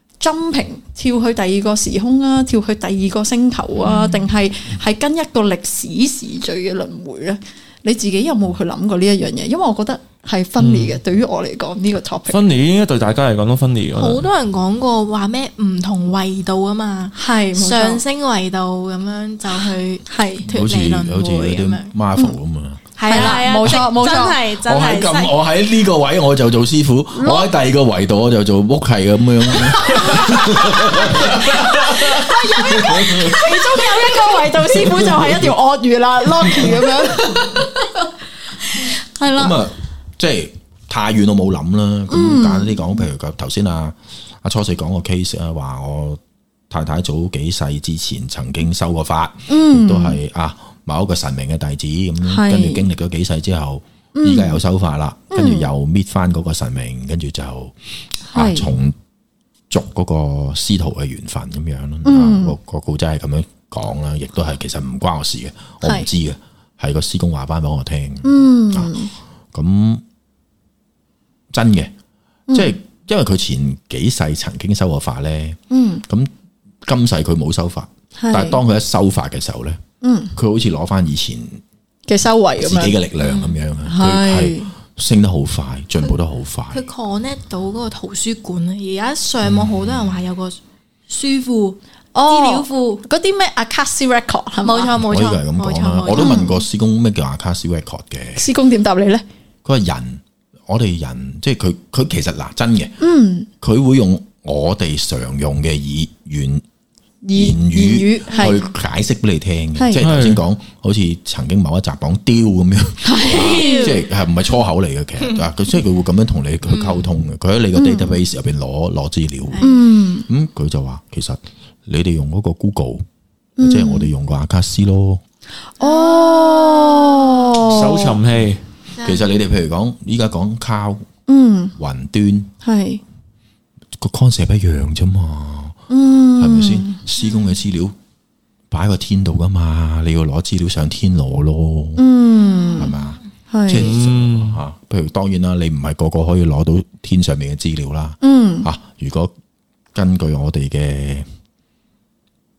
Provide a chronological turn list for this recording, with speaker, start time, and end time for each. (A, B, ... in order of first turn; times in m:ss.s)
0:00.2-0:12.4 A
0:03.8-0:04.3 B
0:10.6-0:11.0 C
0:12.3-0:14.2 C
0:14.0-0:21.9 B
0:17.2-0:18.0 A
0:20.1-0:20.5 A
0:20.5-0:23.4 D
0:23.0-0:25.4 B
0:23.1-0:24.4 A
0:24.6-0:33.6 D
0:27.2-0:27.5 A
0:31.3-0:38.1 A
0:34.8-0:35.3 D
0:36.4-0:37.0 D
0:38.6-0:39.6 A
0:39.3-0:46.2 D
0:42.1-0:42.9 A
0:46.7-0:57.8 D
0:49.5-0:50.2 A
0:52.2-0:52.8 A
0:54.2-0:54.6 A
0:55.3-0:55.7 A
0:58.3-0:59.0 D
0:58.3-0:58.7 A
0:59.7-1:10.0 D
1:02.0-1:02.6 A
1:05.8-1:06.1 A
1:08.2-1:09.1 A
1:11.5-1:11.9 D
1:12.5-1:12.8 A
1:12.5-1:16.3 D
1:15.7-1:16.0 A
1:16.9-1:19.8 D
1:18.2-1:18.6 A
1:20.0-1:20.4 A
1:20.4-1:21.6 D
1:22.1-1:23.0 A
1:22.6-1:26.8 D
1:23.2-1:23.6 B
1:23.9-1:24.7 A
1:26.7-1:30.6 B
1:31.1-1:33.0 B
1:32.1-1:35.0 A
1:34.6-1:36.5 B
1:35.0-1:38.5 D
1:36.2-1:36.6 A
1:38.4-1:39.2 A
1:39.6-1:43.0 D
1:43.0-1:43.5 A
1:43.6-1:46.6 D
1:47.2-1:48.7 A
1:47.4-1:59.6 D
1:49.8-1:50.0 A
1:50.0-1:50.4 C
1:53.0-1:53.9 A
1:53.2-1:54.1 B
1:56.7-1:57.1 B
1:57.7-1:58.2 A
1:59.5-1:59.9 B
1:59.6-2:00.3 A
2:00.2-2:03.0 D
2:03.6-2:04.1 A
2:03.6-2:05.2 D
2:05.8-2:07.6 B
2:05.8-2:08.2 A
2:07.6-2:08.6 C
2:09.0-2:09.3 B
2:09.0-2:11.1 D
2:11.3-2:11.8 A
2:11.8-2:12.5 D
2:12.6-2:13.0 A
2:14.0-2:15.8 D
2:15.9-2:17.0 A
2:16.4-2:18.0 D
2:17.2-2:17.5 B
2:18.7-2:22.1 D
2:22.0-2:22.9 A
2:22.5-2:23.2 B
2:22.8-2:29.3 D
2:23.5-2:23.9 A
2:23.7-2:24.6 C
2:28.2-2:28.7 A
2:29.9-2:31.3 D